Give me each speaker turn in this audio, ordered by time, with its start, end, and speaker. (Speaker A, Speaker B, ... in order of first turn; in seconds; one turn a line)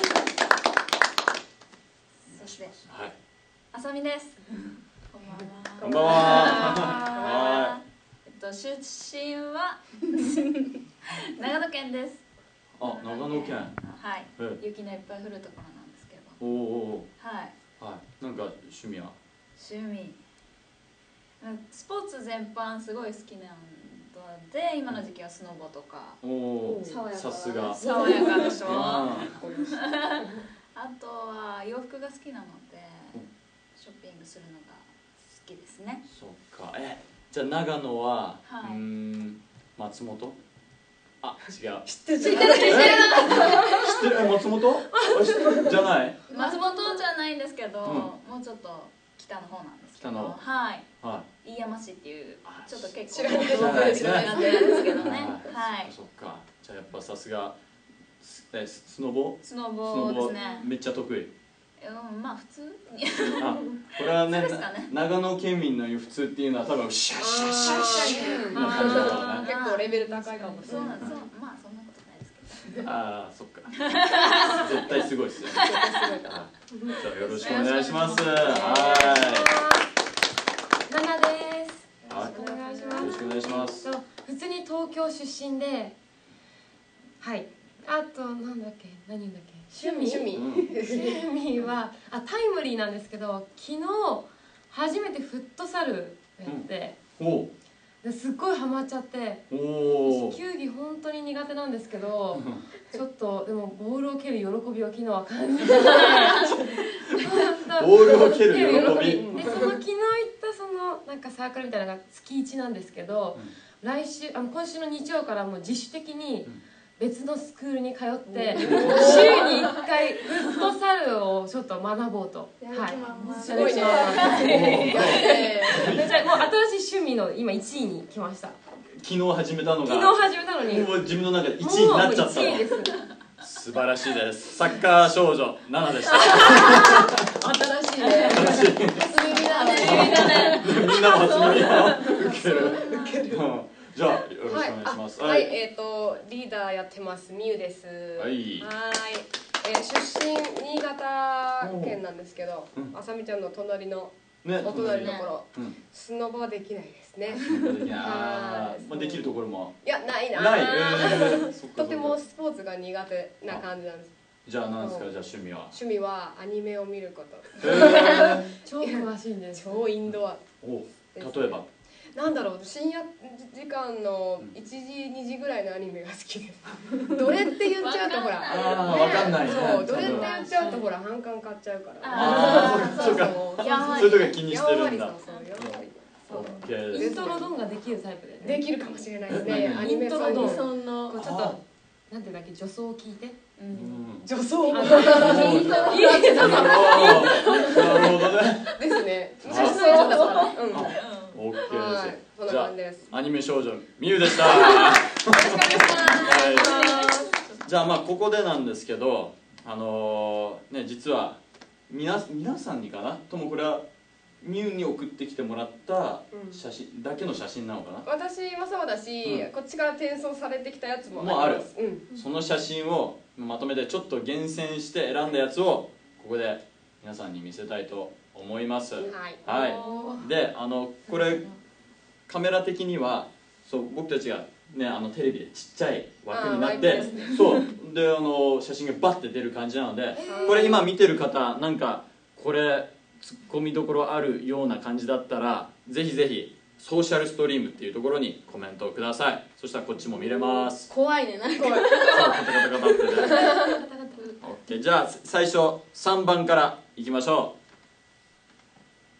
Speaker A: 2.2-2.8
Speaker B: 2.3-3.1
Speaker A: 3.7-12.2
Speaker C: 5.8-7.5
Speaker B: 5.8-7.8
Speaker B: 12.8-13.7
Speaker A: 12.8-16.4
Speaker B: 16.4-17.1
Speaker A: 17.2-17.5
Speaker B: 17.8-19.1
Speaker A: 19.6-20.2
Speaker A: 21.4-26.2
Speaker B: 26.2-27.8
Speaker C: 26.6-27.0
Speaker D: 26.8-28.8
Speaker A: 27.7-33.2
Speaker C: 28.1-30.4
Speaker B: 28.6-29.4
Speaker A: 33.7-36.0
Speaker B: 36.1-40.4
Speaker A: 38.4-38.8
Speaker B: 41.2-41.9
Speaker C: 41.9-44.0
Speaker D: 42.2-43.4
Speaker A: 42.2-43.6
Speaker E: 42.3-43.5
Speaker B: 42.6-46.2
Speaker E: 45.0-45.6
Speaker A: 46.3-50.9
Speaker C: 46.3-46.9
Speaker B: 47.8-48.1
Speaker B: 50.0-50.4
Speaker B: 51.0-51.3
Speaker A: 51.4-55.9
Speaker B: 52.4-57.6
Speaker C: 53.1-55.1
Speaker B: 58.2-61.3
Speaker A: 59.4-60.7
Speaker A: 61.8-64.9
Speaker B: 63.3-69.5
Speaker C: 67.2-71.2
Speaker A: 67.8-72.9
Speaker D: 68.2-68.5
Speaker E: 68.5-69.4
Speaker B: 72.8-73.9
Speaker A: 73.9-74.7
Speaker B: 74.4-75.6
Speaker C: 75.5-77.7
Speaker A: 75.5-75.9
Speaker B: 76.2-79.6
Speaker A: 77.2-78.9
Speaker E: 78.4-79.9
Speaker E: 80.9-86.0
Speaker B: 82.0-82.3
Speaker C: 82.1-83.7
Speaker B: 82.9-83.9
Speaker E: 87.2-97.0
Speaker C: 89.7-91.7
Speaker B: 90.3-90.7
Speaker B: 96.5-97.5
Speaker E: 98.0-99.5
Speaker B: 99.5-100.3
Speaker E: 100.0-106.6
Speaker B: 102.3-102.6
Speaker B: 107.1-109.8
Speaker E: 107.1-124.9
Speaker C: 108.0-109.8
Speaker C: 118.3-119.7
Speaker B: 118.6-119.5
Speaker D: 118.8-119.8
Speaker D: 122.6-124.5
Speaker C: 123.2-126.1
Speaker A: 124.0-125.5
Speaker B: 124.3-126.5
Speaker E: 125.7-128.6
Speaker B: 128.9-132.7
Speaker E: 129.8-130.9
Speaker E: 131.6-132.9
Speaker B: 133.4-137.3
Speaker C: 136.1-143.4
Speaker A: 138.0-138.4
Speaker B: 138.3-145.6
Speaker A: 139.3-142.0
Speaker D: 139.8-140.3
Speaker C: 144.4-164.1
Speaker B: 148.2-148.7
Speaker B: 151.6-152.0
Speaker B: 154.4-155.8
Speaker A: 154.8-155.3
Speaker B: 157.3-162.2
Speaker B: 164.4-165.7
Speaker C: 164.8-170.4
Speaker B: 167.6-168.5
Speaker E: 167.7-169.9
Speaker B: 170.1-171.7
Speaker C: 171.1-171.6
Speaker C: 172.1-187.5
Speaker A: 177.8-180.7
Speaker B: 178.4-180.3
Speaker E: 180.2-180.8
Speaker A: 182.0-184.4
Speaker B: 182.1-187.3
Speaker E: 186.8-188.7
Speaker C: 188.4-190.7
Speaker B: 189.3-189.9
Speaker E: 189.4-193.4
Speaker D: 189.9-191.2
Speaker B: 191.1-191.6
Speaker A: 193.6-194.0
Speaker B: 193.7-194.2
Speaker C: 194.2-201.1
Speaker E: 194.7-197.9
Speaker D: 194.8-197.5
Speaker B: 195.1-198.8
Speaker B: 199.4-199.9
Speaker A: 199.4-201.4
Speaker E: 199.6-200.6
Speaker B: 200.7-207.0
Speaker C: 201.6-203.1
Speaker C: 204.3-207.2
Speaker A: 205.6-207.6
Speaker D: 205.8-206.1
Speaker E: 206.5-207.3
Speaker B: 207.6-213.8
Speaker B: 214.4-218.1
Speaker C: 216.3-216.6
Speaker C: 218.0-222.1
Speaker B: 221.2-231.5
Speaker C: 229.0-230.2
Speaker D: 229.5-230.2
Speaker E: 229.8-230.1
Speaker B: 232.3-250.9
Speaker C: 236.3-237.6
Speaker D: 236.8-237.5
Speaker E: 240.1-240.8
Speaker C: 240.2-240.9
Speaker D: 250.3-253.8
Speaker C: 251.6-252.3
Speaker B: 252.0-253.5
Speaker E: 253.2-254.3
Speaker B: 254.4-257.5